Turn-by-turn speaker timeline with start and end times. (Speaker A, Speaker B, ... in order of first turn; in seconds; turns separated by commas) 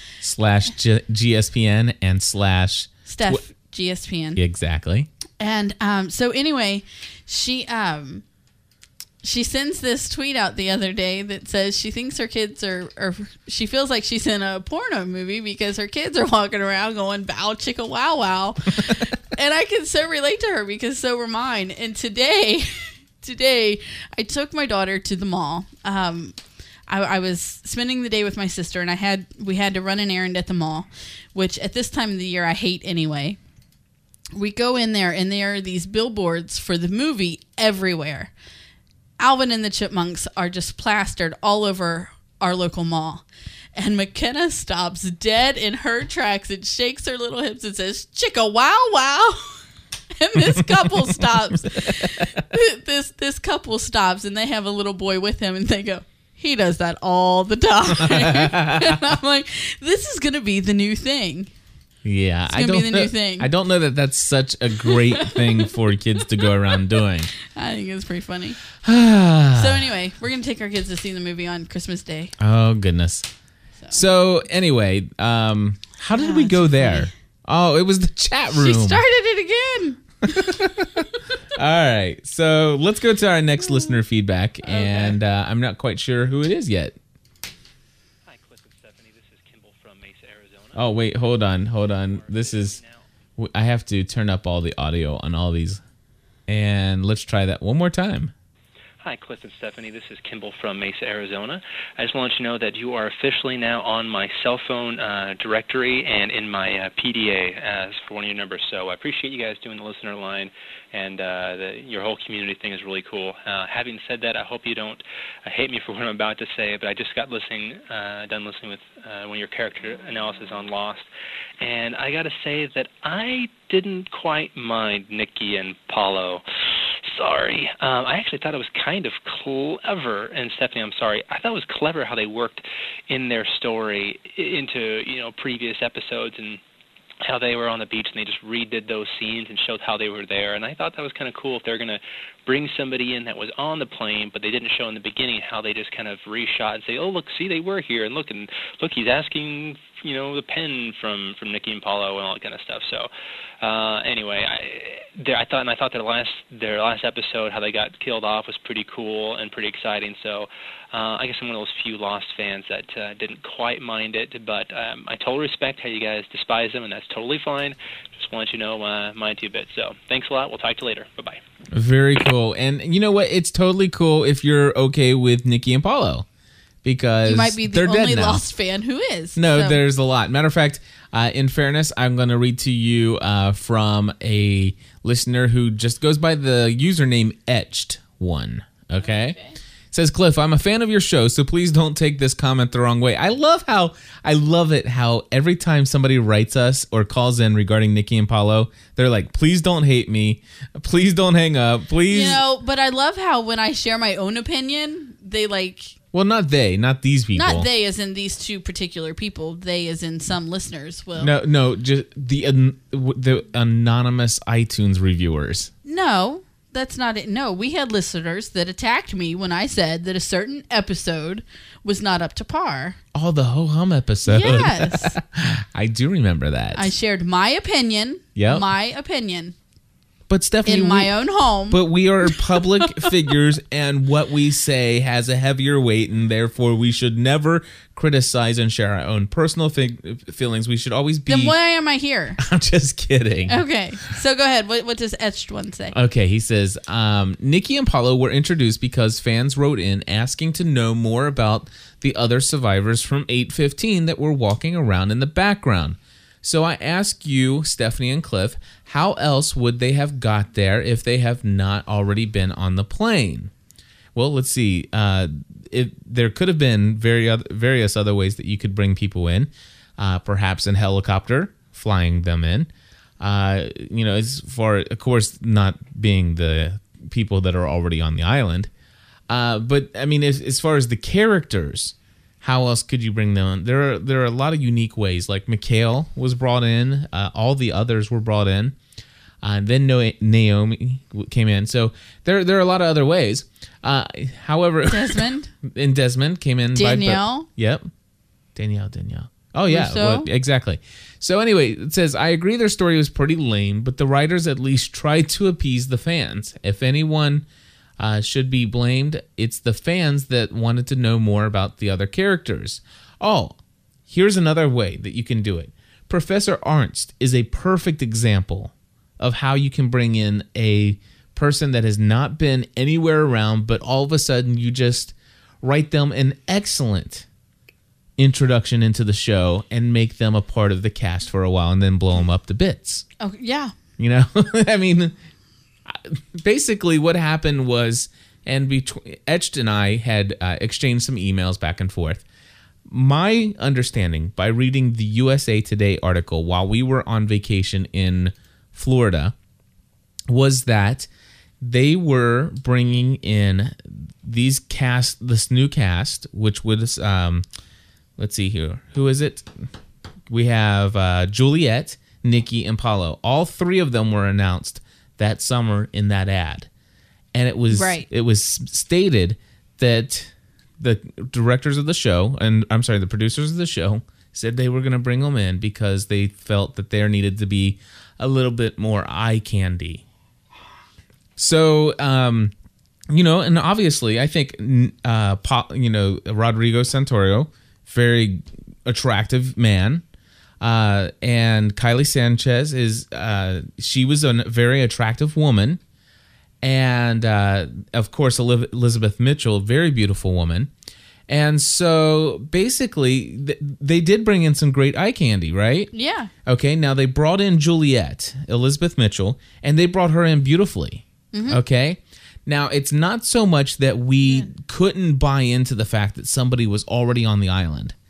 Speaker A: 0.2-3.4, Speaker B: 3.1-4.4, Speaker A: 4.4-5.1, Speaker B: 5.4-8.2, Speaker B: 9.2-26.3, Speaker B: 26.9-33.4, Speaker B: 34.3-38.3, Speaker B: 39.2-49.6, Speaker B: 50.2-61.5, Speaker A: 50.5-52.4, Speaker A: 58.0-59.0, Speaker A: 62.0-67.3, Speaker B: 62.5-63.5, Speaker B: 64.9-65.4, Speaker B: 67.5-68.6, Speaker A: 68.8-69.9, Speaker B: 69.5-72.3, Speaker A: 72.4-73.3, Speaker A: 73.9-79.0, Speaker B: 76.2-77.1, Speaker B: 78.5-81.0, Speaker A: 80.3-87.0, Speaker B: 84.7-85.2, Speaker C: 88.2-90.9, Speaker A: 90.8-92.8, Speaker C: 91.8-93.0, Speaker A: 93.4-95.8, Speaker A: 96.5-98.3, Speaker C: 99.0-121.1, Speaker C: 121.6-126.4, Speaker C: 127.0-136.6, Speaker C: 137.2-153.1, Speaker C: 153.6-171.4, Speaker A: 171.7-176.2, Speaker A: 176.8-178.4, Speaker B: 177.2-179.8, Speaker A: 179.4-189.4, Speaker B: 189.0-189.5, Speaker A: 189.9-202.4, Speaker B: 202.1-205.9, Speaker A: 206.1-207.7, Speaker B: 207.3-211.3, Speaker A: 211.2-215.7, Speaker B: 215.8-223.0, Speaker A: 223.1-226.9, Speaker B: 224.2-225.2, Speaker B: 226.7-229.5, Speaker A: 228.4-228.7, Speaker A: 230.3-231.1, Speaker B: 230.7-233.1, Speaker A: 231.7-241.6, Speaker B: 241.3-242.4, Speaker A: 242.4-243.6, Speaker B: 243.5-245.9, Speaker A: 245.9-263.5, Speaker A: 264.1-278.7, Speaker A: 279.3-288.8, Speaker A: 289.4-297.9, Speaker B: 294.9-295.5, Speaker B: 296.7-297.5, Speaker A: 298.6-307.4, Speaker B: 299.7-300.3, Speaker A: 308.0-327.2, Speaker A: 328.2-333.1, Speaker B: 333.2-333.7, Speaker A: 334.0-335.1, Speaker A: 335.9-342.2, Speaker A: 342.9-349.4, Speaker A: 350.3-351.1, Speaker A: 351.6-357.4, Speaker A: 358.2-359.6, Speaker A: 360.3-366.7, Speaker A: 367.3-380.0, Speaker B: 367.7-368.1, Speaker A: 381.4-382.5, Speaker A: 383.1-390.0, Speaker A: 390.6-395.8, Speaker A: 396.6-400.7, Speaker A: 401.3-405.9, Speaker B: 405.9-406.3, Speaker A: 406.4-417.9, Speaker B: 411.3-411.6